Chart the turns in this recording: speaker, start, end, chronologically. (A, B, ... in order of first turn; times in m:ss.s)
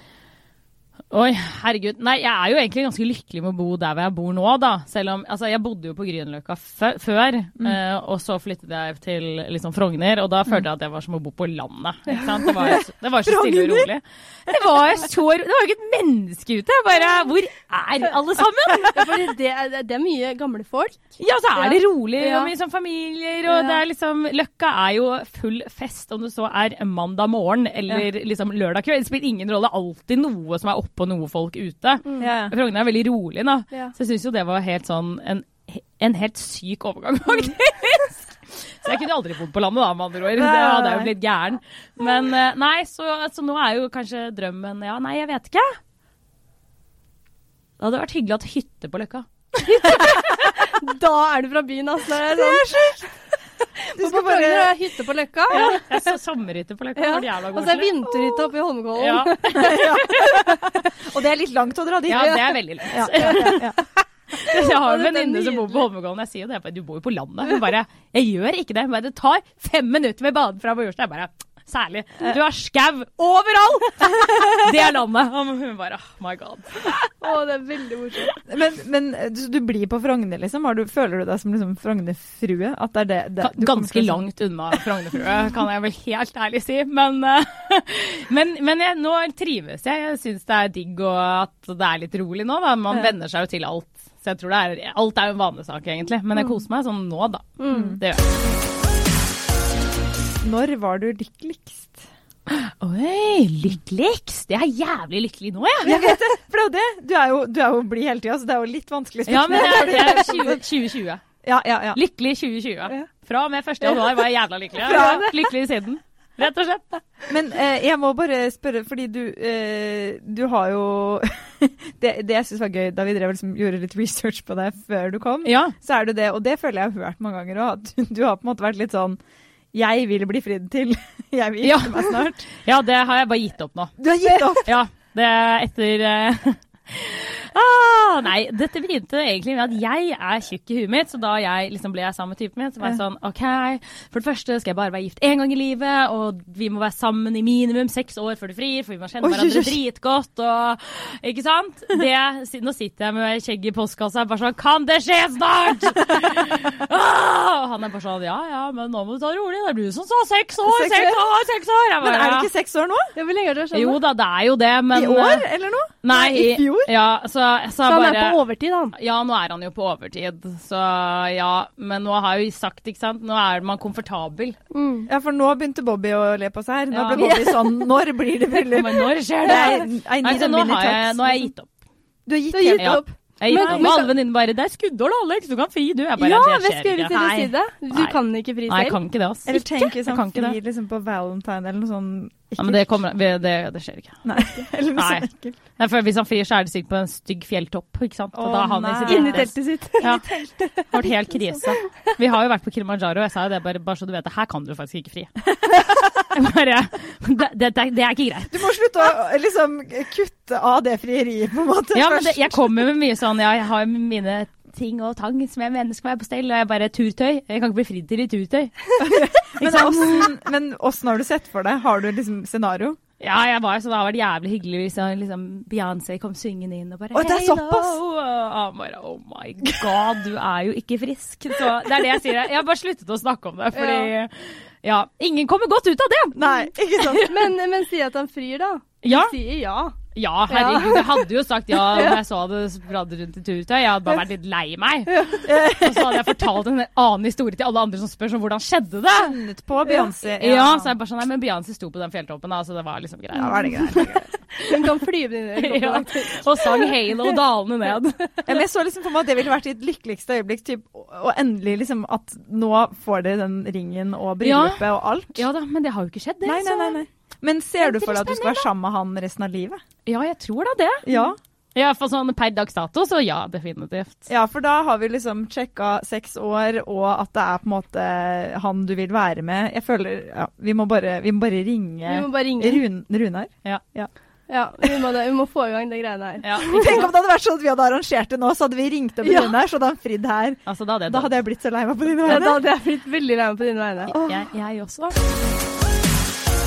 0:01.1-0:19.2 A
0:12.4-0:13.9 B
0:18.8-0:22.5 C
0:21.2-0:45.8 A
0:23.5-0:23.8 C
0:32.2-0:32.5 B
0:40.3-0:41.1 B
0:47.8-0:50.7 A
0:49.6-0:52.9 C
0:52.2-0:53.0 B
0:53.8-0:56.0 C
0:53.9-0:54.8 B
0:55.5-0:58.1 A
0:57.0-1:00.7 C
0:59.0-1:00.2 A
0:59.5-1:03.8 B
1:02.1-1:03.7 A
1:02.2-1:02.5 C
1:03.1-1:03.6 C
1:04.3-1:17.0 A
1:04.4-1:05.8 C
1:17.2-1:18.4 C
1:18.4-1:24.2 B
1:23.4-1:38.2 A
1:37.6-1:38.0 C
1:37.7-1:38.0 B
1:40.4-1:42.0 B
1:42.5-1:46.0 A
1:45.8-1:50.6 B
1:49.3-1:51.2 A
1:51.4-1:52.0 B
1:51.9-1:56.8 A
1:53.9-1:54.2 C
1:54.8-1:55.4 C
1:54.8-1:55.3 B
1:57.3-2:09.2 B
2:05.4-2:05.7 A
2:09.7-2:12.4 B
2:11.6-2:14.0 A
2:14.0-2:14.7 B
2:14.6-2:42.5 A
2:29.2-2:29.8 B
2:40.6-2:41.2 B
2:42.0-2:43.1 B
2:43.1-2:44.0 C
2:43.7-2:45.4 A
2:44.9-2:46.9 B
2:46.0-2:48.4 A
2:47.8-2:48.9 C
2:48.9-2:54.6 A
2:54.7-2:55.1 C
2:55.1-3:01.5 B
2:56.9-2:57.5 A
2:57.1-2:57.9 C
2:58.5-3:01.7 A
2:59.5-2:59.8 C
3:02.3-3:04.0 B
3:02.5-3:04.1 C
3:02.8-3:10.6 A
3:06.2-3:09.0 C
3:09.4-3:13.0 B
3:12.6-3:14.2 A
3:14.2-3:15.6 B
3:14.9-3:20.2 A
3:18.3-3:21.1 B
3:19.0-3:20.2 C
3:20.9-3:28.7 A
3:25.6-3:26.2 B
3:28.5-3:32.9 B
3:31.9-3:38.8 A
3:39.0-3:43.0 B
3:39.6-3:40.3 A
3:43.2-3:56.4 A
3:47.1-3:48.0 B
3:53.7-3:54.1 C
3:56.3-3:57.5 B
3:57.2-4:00.0 C
3:59.0-3:59.4 A
4:00.1-4:09.4 A
4:00.5-4:02.2 C
4:05.1-4:05.4 C
4:05.4-4:06.3 B
4:09.2-4:10.9 B
4:10.4-4:14.1 A
4:13.3-4:14.3 B
4:13.5-4:14.1 C
4:14.6-4:17.4 C
4:15.6-4:18.3 A
4:18.4-4:25.4 B
4:24.4-4:27.0 A
4:26.4-4:29.8 B
4:27.8-4:28.6 A
4:30.0-4:31.0 A
4:31.0-4:31.4 B
4:31.7-4:34.3 A
4:34.3-4:44.1 B
4:42.0-4:42.8 C
4:44.5-4:47.1 C
4:46.4-4:47.1 A
4:46.6-4:52.6 B
4:49.2-4:49.5 C
4:50.6-4:51.3 A
4:52.2-4:54.2 C
4:54.1-4:55.2 A